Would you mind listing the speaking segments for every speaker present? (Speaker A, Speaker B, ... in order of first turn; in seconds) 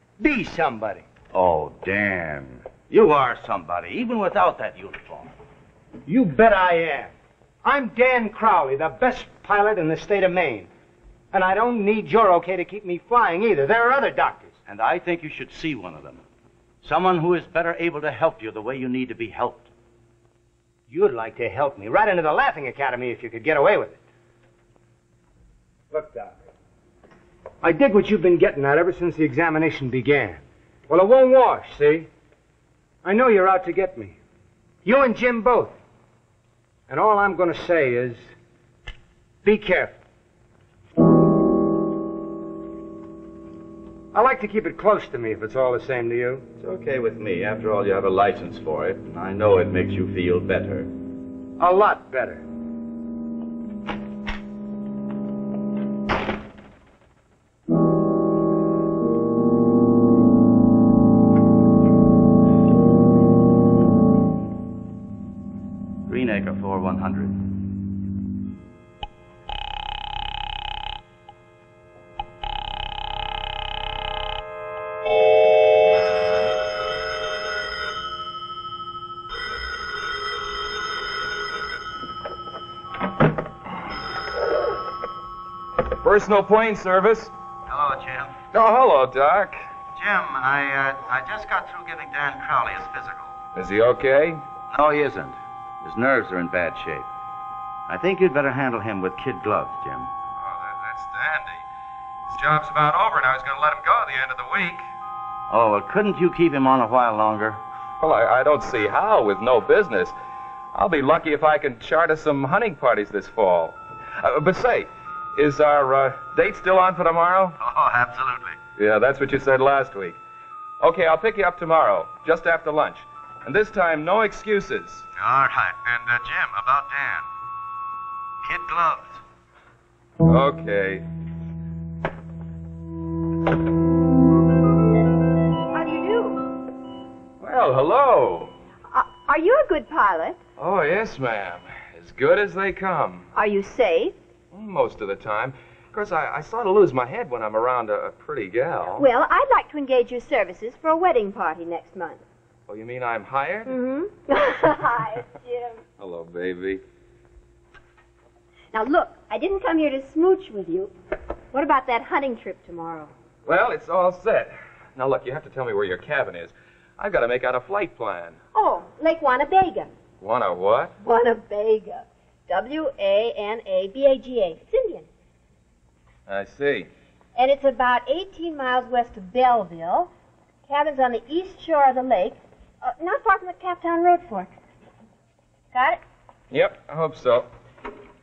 Speaker A: 0.2-1.1, 6.1-7.1, 7.6-10.7, 11.3-14.6, 20.9-24.0, 25.9-26.4, 27.6-32.1, 33.0-34.2, 34.9-35.8, 36.9-38.3, 39.4-40.0, 44.1-46.5, 51.6-52.4
Speaker B: 1.3-5.3, 14.7-16.2, 16.8-19.7, 46.6-50.9, 66.1-67.4, 87.7-88.4, 90.0-93.3, 94.7-97.1, 97.9-100.1, 105.5-107.6, 117.6-118.6, 125.2-127.3, 128.4-129.2
Speaker C: 86.0-87.3, 88.5-89.6, 93.5-94.4, 100.4-101.6, 102.3-104.9, 108.0-110.1, 110.7-117.6, 118.8-120.2, 120.8-125.1, 130.3-131.0, 137.4-138.5, 140.6-143.3, 144.5-149.1, 152.7-153.7, 156.0-156.8, 163.4-168.4, 170.2-170.9, 176.3-176.9, 186.5-187.5
Speaker D: 135.7-136.4, 138.9-140.4, 143.3-144.2, 149.0-152.2, 153.7-155.8, 158.7-160.9, 161.5-163.1, 168.5-169.9, 171.0-175.1, 177.4-180.1, 180.7-184.5, 185.7-186.0